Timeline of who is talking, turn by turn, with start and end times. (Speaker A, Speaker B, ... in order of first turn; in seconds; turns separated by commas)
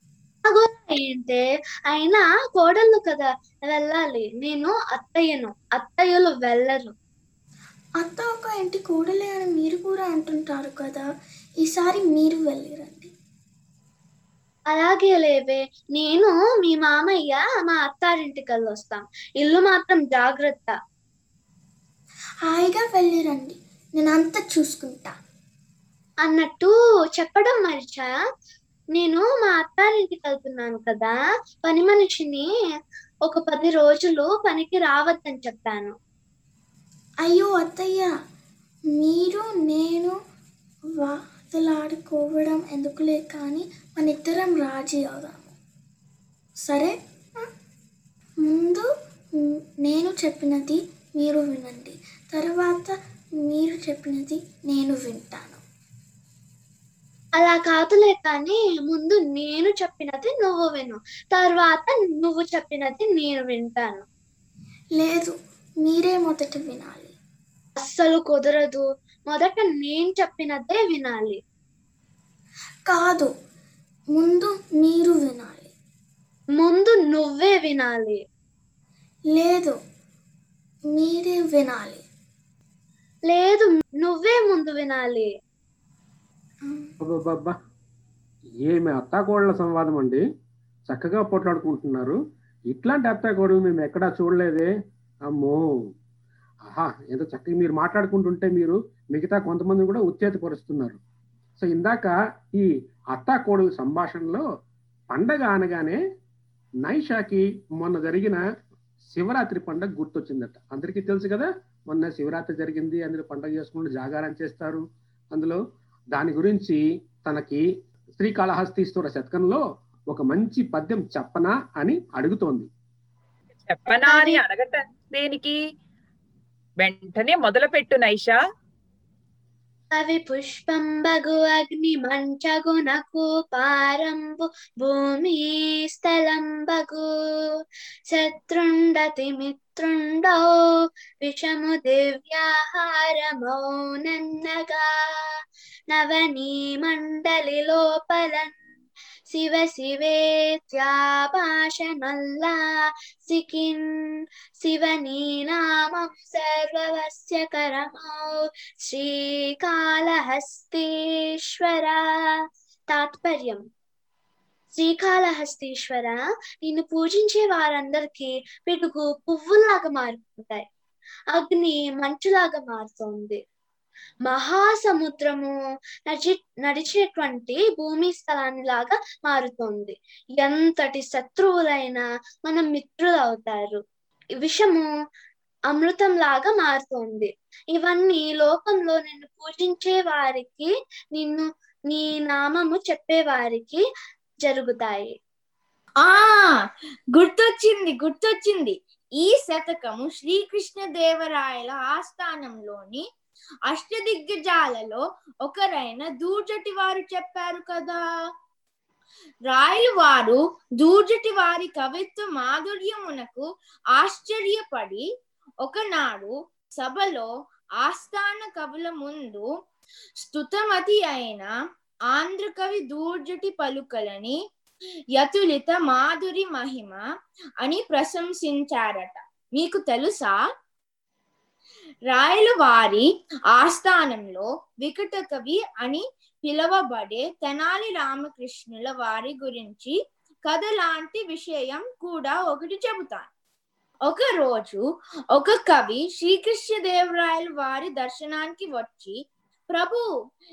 Speaker A: 0.4-6.9, Speaker B: 8.0-11.1, Speaker B: 11.6-13.1, Speaker A: 14.7-20.8, Speaker B: 22.4-25.1, Speaker A: 26.2-28.1, Speaker A: 28.9-32.5, Speaker A: 33.2-36.0, Speaker B: 37.2-38.1, Speaker B: 38.9-40.1, Speaker B: 41.0-45.5, Speaker B: 46.6-47.5, Speaker B: 48.4-55.6, Speaker A: 57.4-64.0, Speaker B: 65.0-67.1, Speaker A: 67.8-71.4, Speaker B: 72.9-73.3, Speaker B: 74.1-75.7, Speaker A: 76.5-78.2, Speaker B: 79.3-79.8, Speaker B: 80.9-82.0, Speaker A: 83.3-85.3, Speaker B: 86.7-86.9, Speaker C: 87.0-87.5, Speaker C: 88.7-90.2, Speaker C: 90.9-92.2, Speaker C: 92.7-94.7, Speaker C: 95.4-95.6, Speaker C: 96.7-101.0, Speaker C: 101.6-104.4, Speaker C: 105.1-106.0, Speaker C: 106.8-108.4, Speaker C: 109.1-114.8, Speaker C: 116.1-117.6, Speaker C: 118.2-119.6, Speaker C: 120.1-122.7, Speaker D: 123.7-125.6, Speaker A: 124.1-124.4, Speaker D: 126.8-128.3, Speaker A: 129.9-137.1, Speaker A: 138.1-140.5, Speaker A: 141.2-145.0, Speaker A: 145.9-148.5, Speaker A: 149.3-154.0, Speaker A: 154.6-162.3, Speaker A: 162.9-163.6, Speaker A: 164.7-170.7, Speaker A: 171.3-173.4, Speaker A: 174.2-175.5, Speaker A: 176.1-183.8, Speaker A: 184.4-184.9, Speaker A: 185.7-193.8, Speaker A: 194.4-195.1, Speaker E: 196.0-203.1, Speaker E: 203.7-208.0, Speaker E: 209.5-215.1, Speaker E: 215.6-217.3, Speaker E: 217.8-219.5, Speaker E: 220.2-221.5, Speaker E: 222.1-224.4, Speaker E: 225.2-227.0, Speaker E: 227.6-230.4, Speaker E: 232.1-239.9, Speaker E: 240.5-243.3, Speaker E: 244.1-244.8, Speaker E: 245.3-249.2, Speaker E: 249.7-250.1